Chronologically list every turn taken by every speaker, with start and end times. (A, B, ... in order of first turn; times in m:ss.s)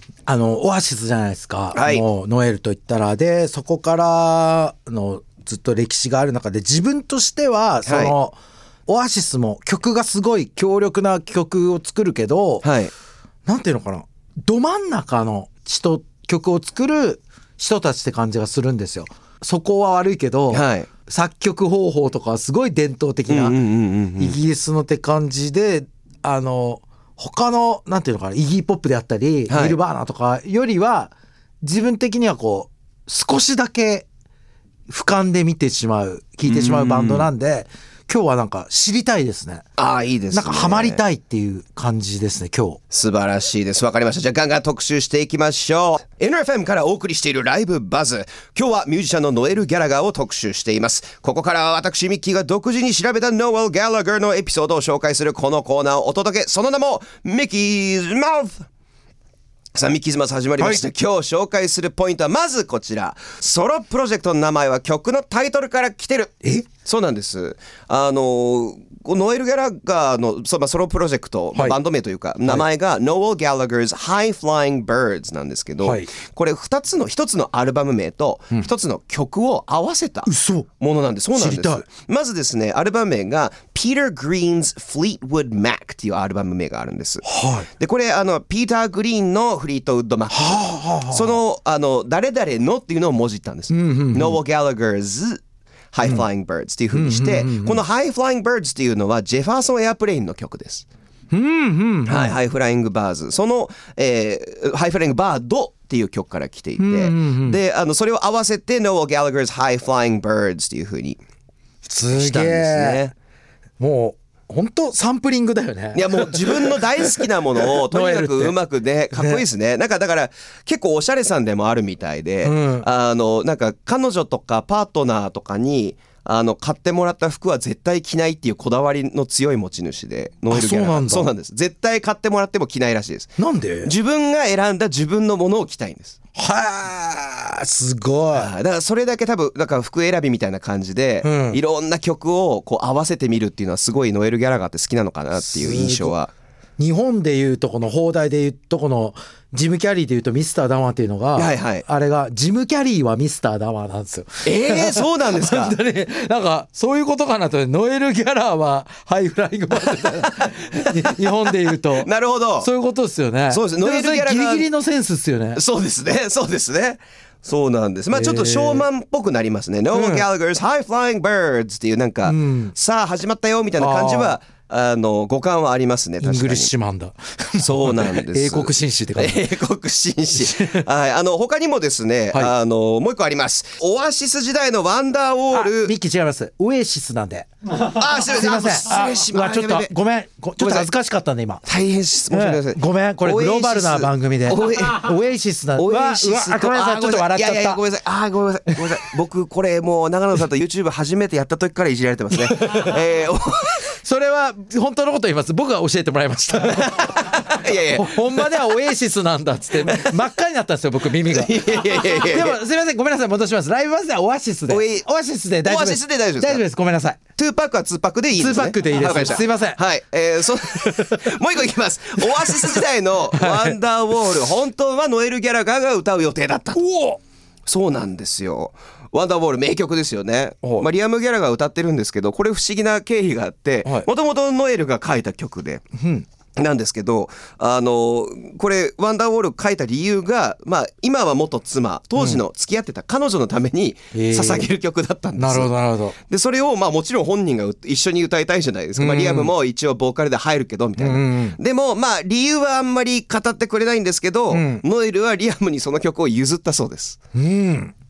0:00.3-0:12.6 A
0:01.7-0:02.0 B
0:07.9-0:08.1 B
0:12.6-0:12.9 B
0:13.5-0:23.6 A
0:20.5-0:20.9 B
0:23.3-0:24.4 B
0:24.2-0:34.1 A
0:29.5-0:29.8 B
0:34.9-0:39.7 A
0:36.5-0:37.3 B
0:39.8-0:41.0 B
0:40.3-0:42.8 A
0:42.9-0:58.7 B
0:59.8-1:27.2 B
1:15.8-1:16.1 A
1:20.3-1:20.7 A
1:21.4-1:21.8 A
1:27.2-1:27.7 A
1:27.8-1:35.4 B
1:30.3-1:31.4 A
1:33.7-1:34.4 A
1:35.9-1:40.9 B
1:36.9-1:37.8 A
1:41.3-1:42.4 A
1:42.1-1:51.2 B
1:46.8-1:47.6 A
1:51.8-1:53.1 A
1:52.1-1:53.1 B
1:53.8-1:56.6 A
1:56.0-2:13.3 B
1:57.8-1:58.6 A
1:59.1-1:59.4 A
2:02.4-2:02.9 A
2:10.5-2:11.3 A
2:13.4-2:13.9 A
2:13.8-2:16.2 B
2:16.4-2:18.5 A
2:18.3-2:26.3 B
2:21.2-2:21.6 A
2:25.4-2:26.2 A
2:26.8-2:45.6 A
2:31.4-2:31.8 B
2:34.4-2:35.8 B
2:42.0-2:42.7 B
2:43.5-2:44.7 B
2:45.6-2:56.7 B
2:48.1-2:48.9 A
2:49.9-2:50.3 A
2:52.2-2:52.7 A
2:53.8-2:54.4 A
2:56.2-2:59.4 A
2:57.6-3:05.9 B
3:00.3-3:00.9 A
3:05.5-3:11.7 A
3:07.9-3:09.9 B
3:10.6-3:10.9 B
3:11.7-3:15.1 B
3:12.3-3:17.8 A
3:15.8-3:23.9 B
3:22.6-3:23.0 A
3:24.0-3:27.2 A
3:26.9-3:28.5 B
3:27.9-3:37.2 A
3:29.8-3:30.1 B
3:31.2-3:32.6 B
3:34.7-3:35.1 B
3:35.6-3:36.6 B
3:37.4-3:46.8 B
3:38.4-3:39.8 A
3:40.9-3:41.2 A
3:42.5-3:42.8 A
3:43.3-3:43.8 A
3:46.8-3:47.2 A
3:47.7-3:55.8 B
3:56.0-3:56.2 A
3:56.6-4:05.7 B
4:04.1-4:04.7 A
4:05.4-4:06.2 A
4:06.3-4:17.2 B
4:09.0-4:09.5 A
4:11.0-4:11.6 A
4:14.5-4:14.8 A
4:17.4-4:17.9 A